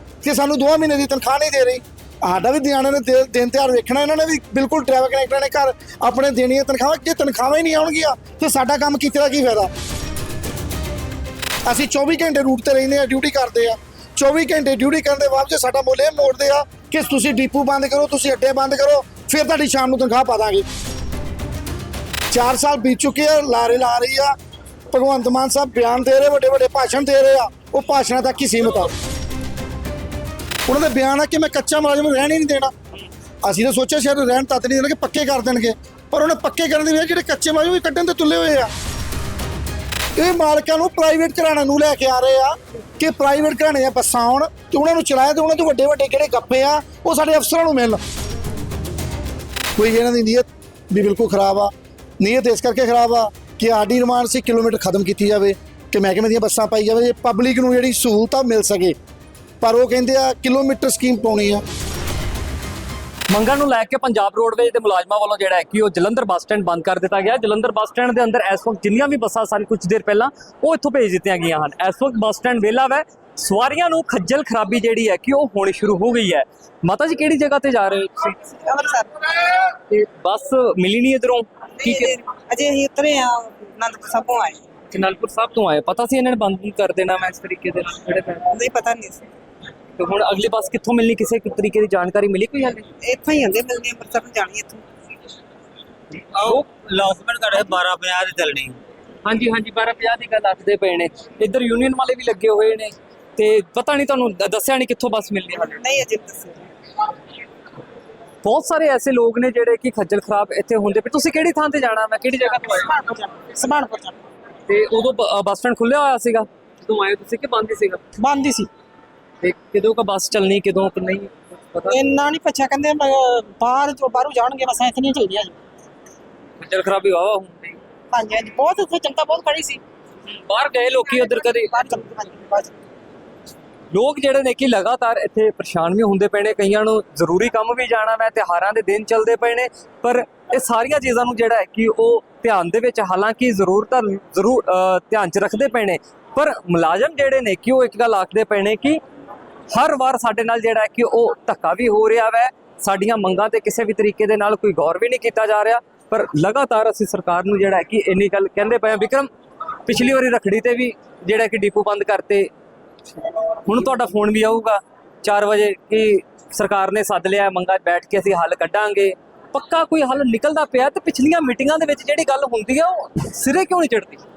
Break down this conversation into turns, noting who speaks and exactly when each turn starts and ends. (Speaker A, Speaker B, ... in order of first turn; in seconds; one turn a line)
Speaker A: 0.2-9.7
Speaker A: 11.7-20.7
Speaker A: 22.3-24.4
Speaker A: 24.9-28.9
Speaker A: 30.7-32.7
Speaker A: 33.4-38.7
Speaker A: 40.2-48.0
Speaker A: 49.8-59.0
Speaker A: 59.6-61.6
Speaker B: 63.3-78.5
Speaker C: 78.6-79.2
Speaker B: 79.5-82.2
Speaker C: 81.8-84.6
Speaker B: 84.9-88.6
Speaker C: 88.5-89.3
Speaker B: 90.0-92.9
Speaker C: 93.0-94.9
Speaker D: 96.4-98.8
Speaker B: 99.2-105.9
Speaker C: 105.6-106.7
Speaker B: 108.4-113.0
Speaker C: 112.7-114.2
Speaker B: 114.7-118.0
Speaker C: 118.2-118.7
Speaker B: 119.4-122.0
Speaker C: 121.9-125.6
Speaker B: 126.6-127.8
Speaker C: 128.1-129.8
Speaker B: 130.5-131.8
Speaker C: 131.1-132.7
Speaker B: 133.9-149.0
Speaker B: 149.7-159.3
Speaker B: 159.9-162.5
Speaker B: 163.7-174.2